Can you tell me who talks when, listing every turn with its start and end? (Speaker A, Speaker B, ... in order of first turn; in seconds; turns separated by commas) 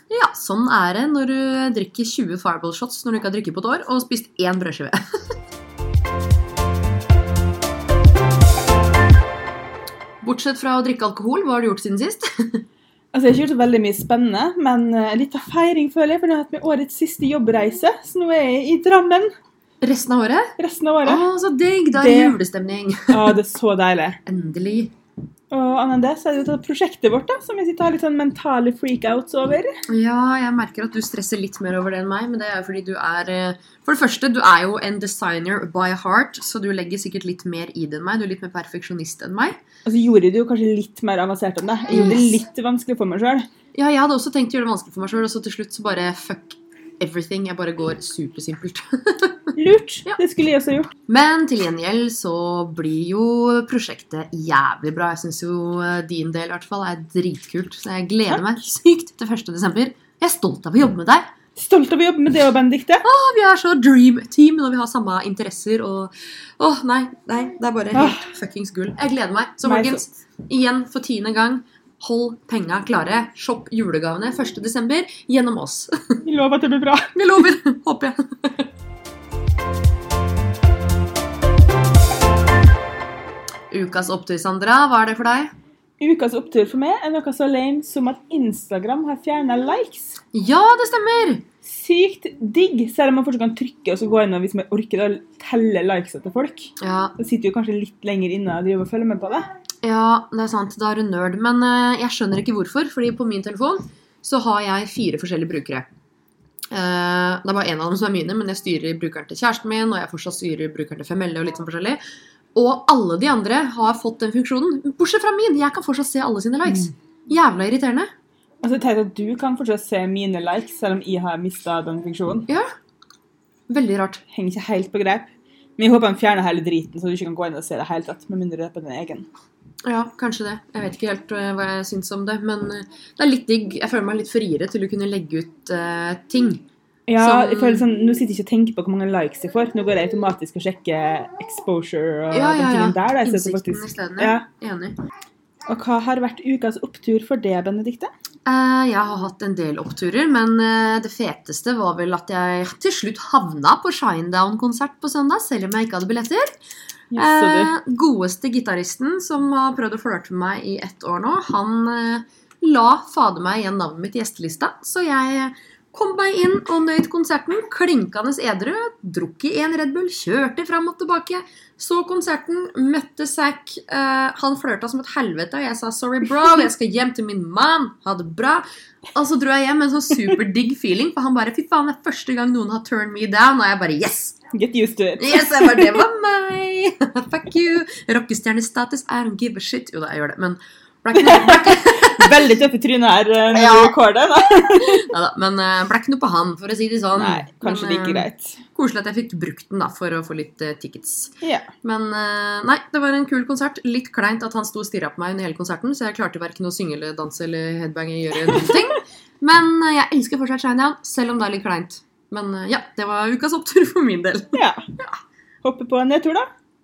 Speaker A: 0.1-5.2, Speaker A: 10.2-12.6, Speaker B: 13.1-19.3, Speaker A: 19.8-23.3, Speaker B: 20.6-21.2, Speaker B: 21.9-22.4, Speaker B: 23.1-24.2, Speaker A: 24.2-24.9, Speaker B: 25.5-29.8, Speaker A: 29.9-39.6, Speaker B: 39.8-43.5, Speaker A: 41.9-42.4, Speaker A: 43.7-49.5, Speaker B: 49.5-50.9, Speaker A: 51.1-61.3, Speaker B: 61.5-63.0, Speaker A: 63.0-76.2, Speaker B: 67.9-68.2, Speaker B: 69.6-70.0, Speaker B: 76.2-77.1, Speaker A: 77.1-78.7, Speaker A: 83.7-85.5, Speaker B: 86.0-90.2, Speaker A: 90.3-91.4, Speaker B: 91.6-99.5, Speaker A: 96.8-97.1, Speaker A: 99.8-105.8, Speaker A: 106.7-112.0, Speaker A: 112.5-118.1, Speaker B: 118.6-122.5, Speaker A: 123.7-124.2, Speaker B: 124.3-129.3, Speaker A: 129.8-136.6, Speaker B: 137.1-144.4, Speaker A: 137.2-137.8, Speaker A: 142.3-144.9, Speaker B: 145.7-148.1, Speaker A: 148.4-156.6, Speaker B: 157.1-157.7, Speaker A: 157.2-184.3, Speaker B: 184.5-186.0, Speaker A: 185.2-192.3, Speaker B: 191.1-195.1, Speaker A: 193.5-193.9, Speaker A: 194.7-201.3, Speaker B: 197.2-198.6, Speaker B: 201.4-201.7, Speaker A: 201.8-215.1, Speaker B: 208.5-208.7, Speaker B: 214.5-214.8, Speaker B: 215.6-216.5